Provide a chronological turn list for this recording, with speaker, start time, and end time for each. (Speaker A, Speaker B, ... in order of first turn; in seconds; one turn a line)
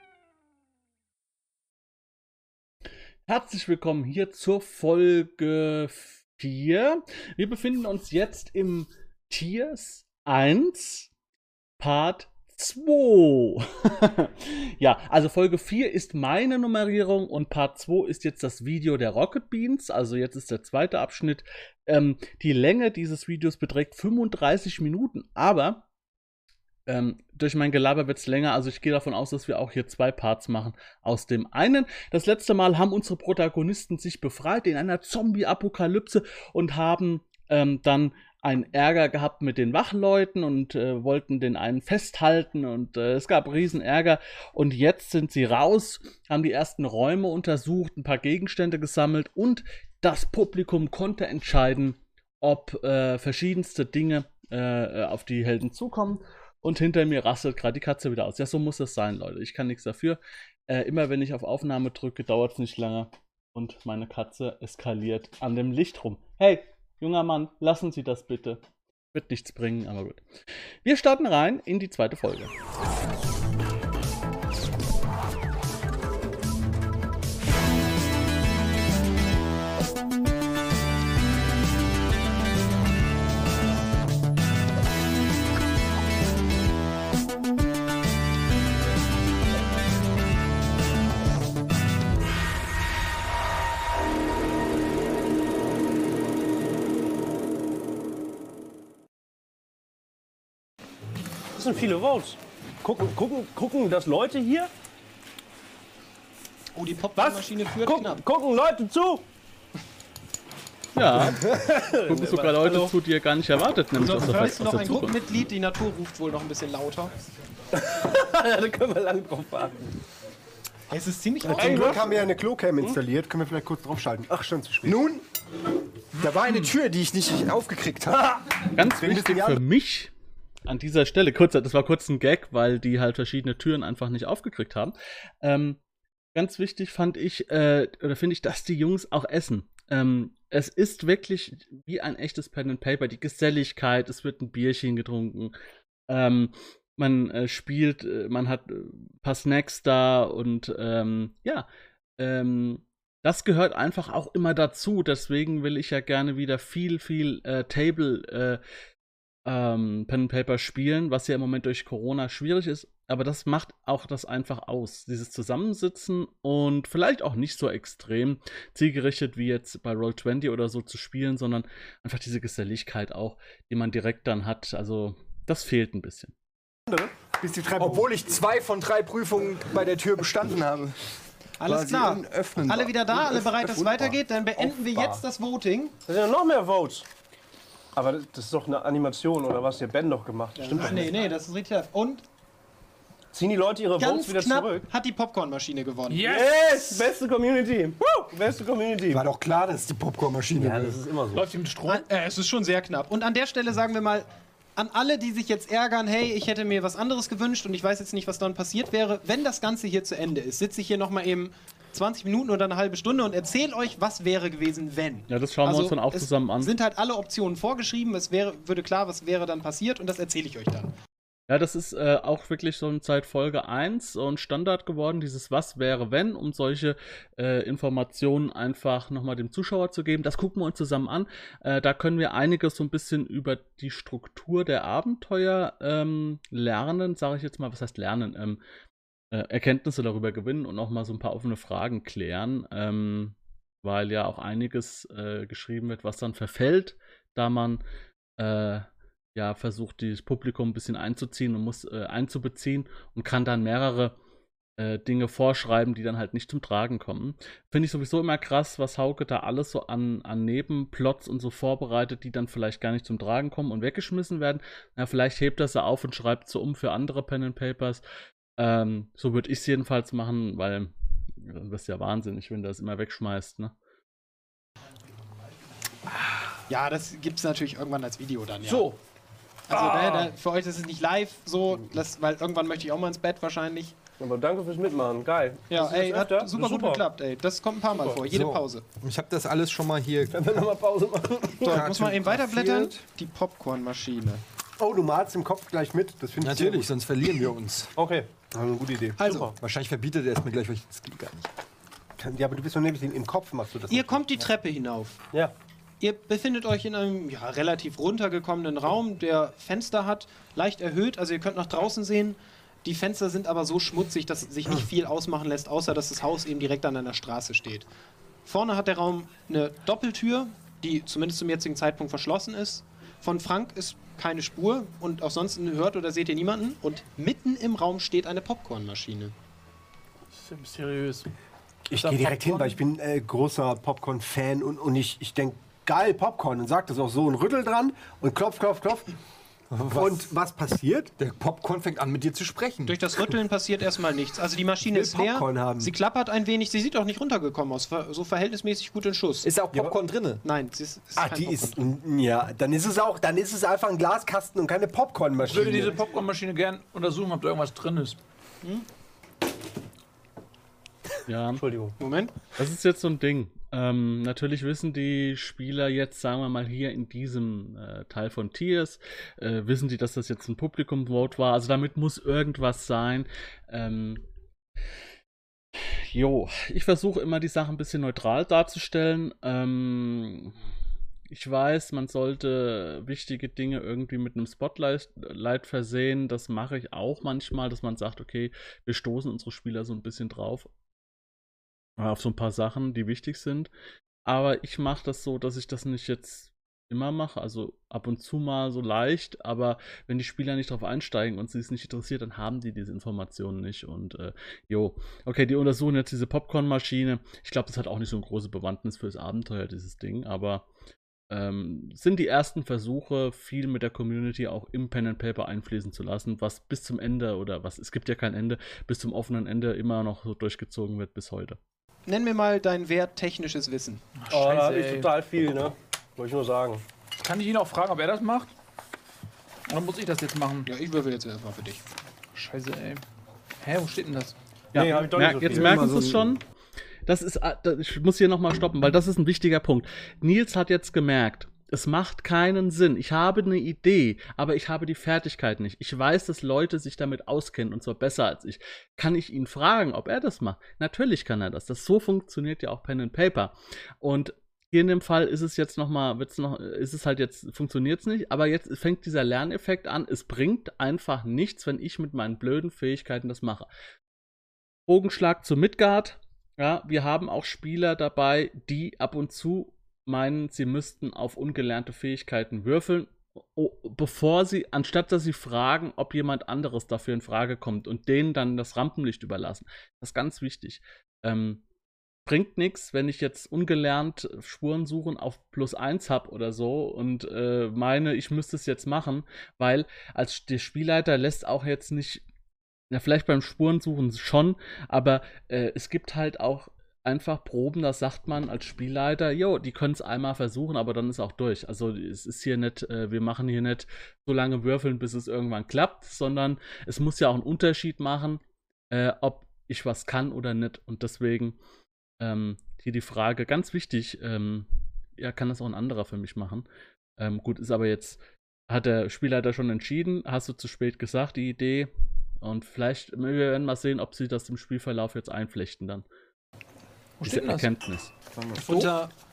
Speaker A: 3.3-11.1
Speaker A: 11.8-25.9
Speaker A: 26.9-70.2
Speaker A: 70.8-72.5
Speaker B: 101.5-104.7
Speaker C: 106.8-108.2
Speaker B: 107.2-109.3
Speaker A: 110.9-115.2
Speaker B: 111.1-113.0
Speaker C: 114.0-117.1
Speaker B: 117.7-120.0
Speaker C: 120.9-122.0
Speaker D: 121.4-125.0
Speaker B: 121.5-122.3
Speaker E: 124.8-125.2
Speaker E: 126.1-129.5
Speaker A: 128.7-130.1
Speaker D: 129.0-129.6
Speaker A: 130.7-135.8
Speaker A: 136.3-145.6
Speaker A: 146.1-151.7
Speaker A: 152.2-158.6
Speaker A: 159.4-176.3
Speaker D: 176.9-178.1
Speaker E: 177.8-181.0
Speaker C: 181.6-185.9
Speaker E: 181.6-185.2
Speaker B: 186.1-187.1
Speaker B: 187.9-191.2
Speaker C: 190.6-192.2
Speaker B: 193.3-194.9
Speaker C: 194.0-196.3
Speaker F: 196.1-197.1
Speaker B: 196.2-199.3
Speaker E: 199.1-201.0
Speaker B: 200.5-201.5
Speaker F: 201.3-202.1
Speaker C: 201.9-220.9
Speaker A: 215.3-216.7
Speaker A: 221.5-238.6
Speaker A: 239.3-247.8
Speaker A: 248.4-254.2
Speaker A: 254.8-268.0
Speaker A: 268.6-273.8
Speaker C: 276.7-278.9
Speaker F: 278.6-279.0
Speaker C: 279.7-284.0
Speaker F: 279.7-280.4
Speaker B: 284.2-287.1
Speaker C: 285.7-288.9
Speaker B: 287.9-288.2
Speaker E: 288.2-290.4
Speaker B: 290.3-291.9
Speaker E: 291.6-293.0
Speaker C: 291.6-294.4
Speaker D: 294.8-296.9
Speaker E: 296.4-297.9
Speaker B: 298.0-298.3
Speaker D: 298.5-299.4
Speaker C: 299.2-299.5
Speaker E: 299.3-301.5
Speaker D: 302.2-304.3
Speaker C: 303.9-305.2
Speaker C: 306.0-317.9
Speaker C: 318.4-329.4
Speaker F: 330.4-331.3
Speaker D: 331.9-339.1
Speaker F: 331.9-332.8
Speaker E: 339.7-340.2
Speaker D: 339.9-341.1
Speaker E: 341.2-343.0
Speaker C: 342.9-349.6
Speaker D: 344.9-345.9
Speaker E: 349.4-350.4
Speaker C: 350.4-351.8
Speaker D: 351.2-356.0
Speaker F: 355.4-358.2
Speaker A: 361.3-361.6
Speaker B: 361.6-362.0
Speaker C: 362.0-362.3
Speaker A: 362.6-374.2
Speaker A: 375.8-380.6
Speaker A: 381.3-390.7
Speaker A: 392.0-393.7
Speaker A: 394.3-410.7
Speaker A: 411.3-421.6
Speaker C: 422.1-424.1
Speaker F: 424.2-425.2
Speaker B: 424.3-426.8
Speaker F: 427.2-428.5
Speaker F: 429.7-430.7
Speaker C: 430.7-431.8
Speaker F: 432.4-433.0
Speaker F: 433.6-434.4
Speaker B: 434.7-435.9
Speaker A: 434.7-436.4
Speaker D: 435.5-436.3
Speaker A: 437.1-463.7
Speaker A: 464.9-481.6
Speaker A: 482.3-492.2
Speaker A: 492.9-511.6
Speaker A: 512.2-516.7
Speaker A: 517.2-521.9
Speaker A: 522.4-526.1
Speaker F: 527.2-527.7
Speaker A: 527.2-528.1
Speaker C: 528.6-529.1